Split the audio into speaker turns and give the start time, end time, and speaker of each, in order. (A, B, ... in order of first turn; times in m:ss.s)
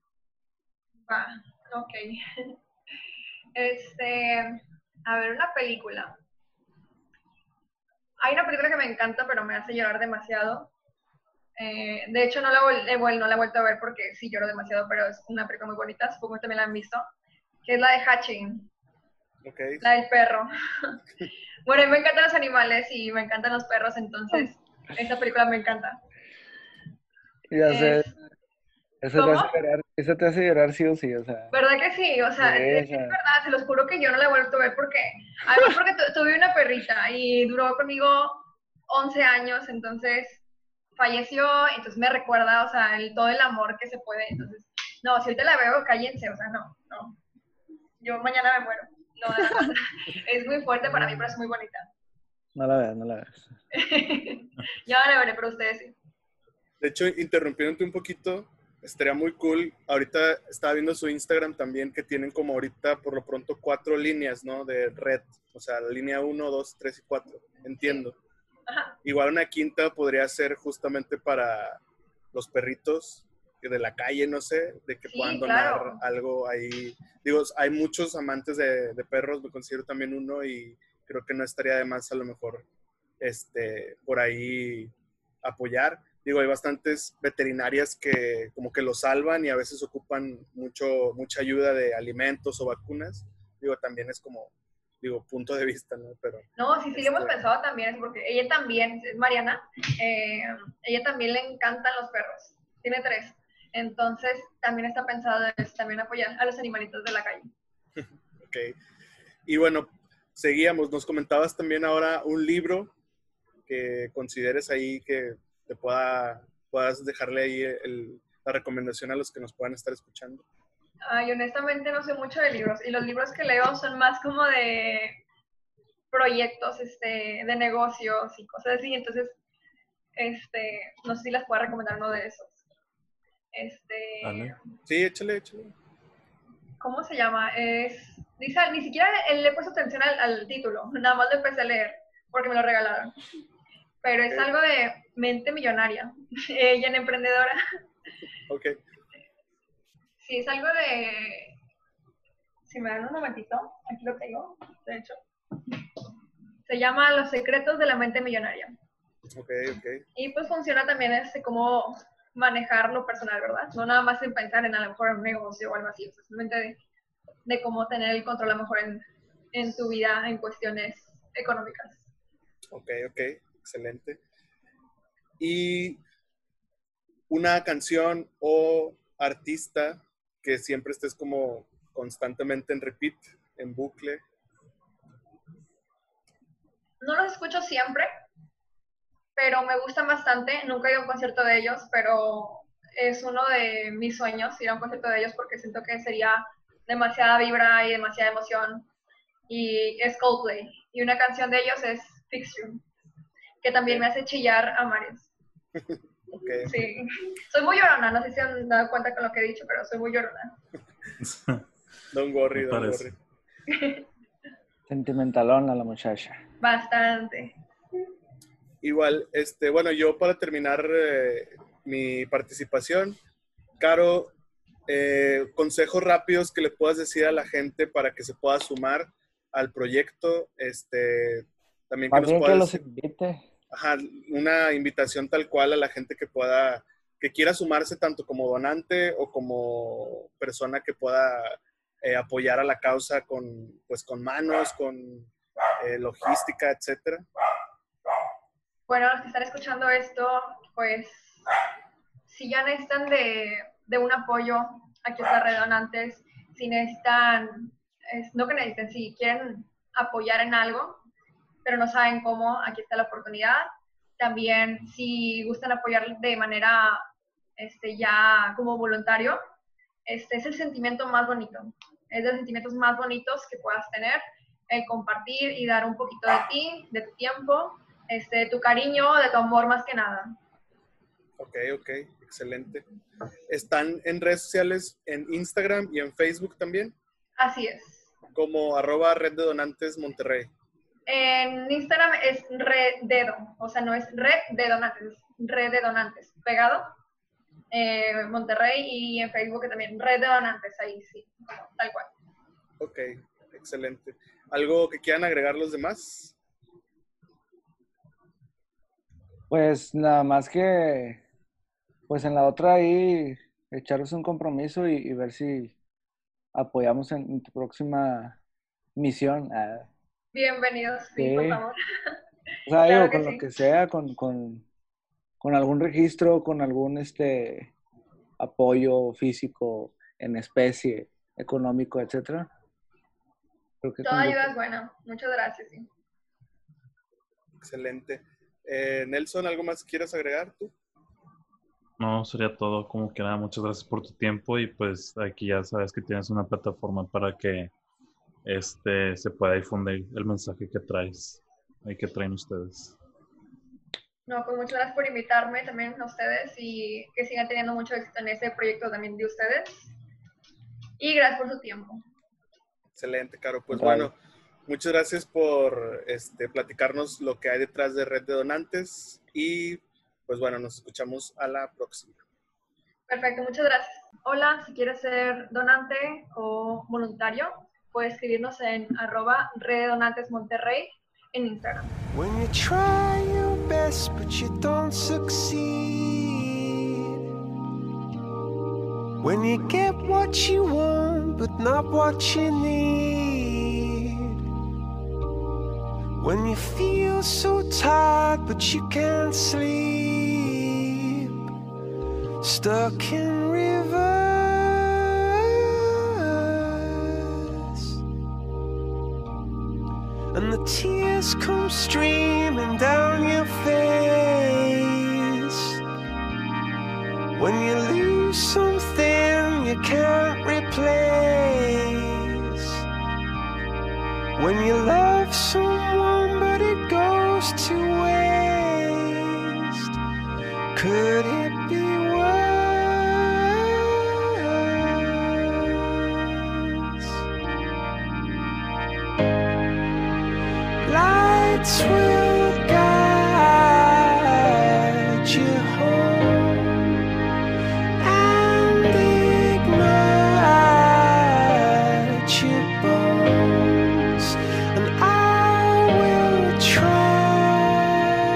0:01.1-0:02.6 A
0:03.6-0:06.2 A
0:08.2-0:10.7 A
0:11.6-0:17.1 A
0:17.6-0:18.7 A
0:19.4-0:19.9 B
0:19.8-0:21.0 A
0:21.7-0:26.0 A
0:27.5-0:28.1 C
0:27.7-0:28.1 A
0:29.0-0:31.5 C
0:29.1-0:29.5 A
0:31.5-0:40.4 A
0:32.4-0:33.2 C
0:41.0-0:47.2 A
0:48.0-0:51.9 A
0:49.4-0:49.7 C
0:50.9-0:51.3 C
0:52.6-0:53.5 C
0:53.7-0:56.0 A
0:56.8-1:08.2 B
1:08.7-1:09.0 A
1:09.0-1:11.8 B
1:12.3-1:22.7 B
1:15.1-1:16.0 A
1:23.2-1:37.3 B
1:36.6-1:47.5 A
1:48.0-1:48.8 B
1:49.5-1:52.9 B
1:53.7-2:00.4 B
2:01.0-2:05.2 A
2:06.1-2:09.4 A
2:10.2-2:12.6 A
2:13.5-2:14.6 A
2:14.2-2:14.5 D
2:14.9-2:15.7 B
2:16.8-2:23.2 A
2:24.0-2:27.6 A
2:28.5-2:28.8 B
2:30.2-2:31.6 A
2:32.7-2:35.2 A
2:36.7-2:38.7 A
2:39.4-2:40.0 B
2:40.2-2:46.8 A
2:47.5-2:52.0 A
2:52.7-2:54.2 B
2:55.4-2:56.0 B
2:57.3-3:04.2 B
3:07.0-3:08.1 A
3:09.4-3:18.9 A
3:19.5-3:22.8 A
3:23.6-3:25.3 A
3:25.8-3:26.8 B
3:26.6-3:30.6 A
3:31.2-3:31.6 D
3:32.1-3:33.2 B
3:32.6-3:33.1 D
3:33.7-3:34.0 A
3:34.9-3:36.4 C
3:36.6-3:37.6 A
3:38.8-3:43.2 B
3:43.8-3:44.3 B
3:44.9-3:52.8 B
3:52.1-3:53.5 C
3:53.7-4:07.2 B
4:08.9-4:11.4 A
4:12.3-4:21.0 A
4:21.6-4:27.1 A
4:27.6-4:29.4 A
4:30.1-4:40.4 A
4:41.4-4:42.9 B
4:43.5-4:47.0 B
4:47.4-4:48.1 A
4:48.3-4:50.5 B
4:51.1-4:56.9 A
4:57.7-5:02.1 A
5:02.8-5:06.4 B
5:09.5-5:11.2 C
5:12.1-5:15.8 C
5:16.5-5:18.4 C
5:19.0-5:19.9 C
5:20.3-5:22.1 A
5:21.2-5:21.6 C
5:22.7-5:24.7 C
5:22.8-5:23.4 A
5:25.4-5:27.7 C
5:28.4-5:32.5 C
5:33.8-5:34.5 C
5:34.0-5:35.9 A
5:37.6-5:40.7 B
5:42.0-5:47.7 D
5:48.4-5:53.0 D
5:54.3-5:59.9 A
6:01.0-6:02.0 A
6:03.0-6:04.2 B
6:03.7-6:04.1 C
6:04.7-6:12.2 B
6:13.1-6:21.9 A
6:22.1-6:27.2 E
6:29.2-6:34.4 E
6:36.2-6:41.5 E
6:42.4-6:48.0 E
6:50.3-6:55.8 E
6:57.4-7:02.8 E
7:04.4-7:09.9 E
7:10.7-7:17.2 E
7:20.8-7:26.8 E
7:28.0-7:38.0 E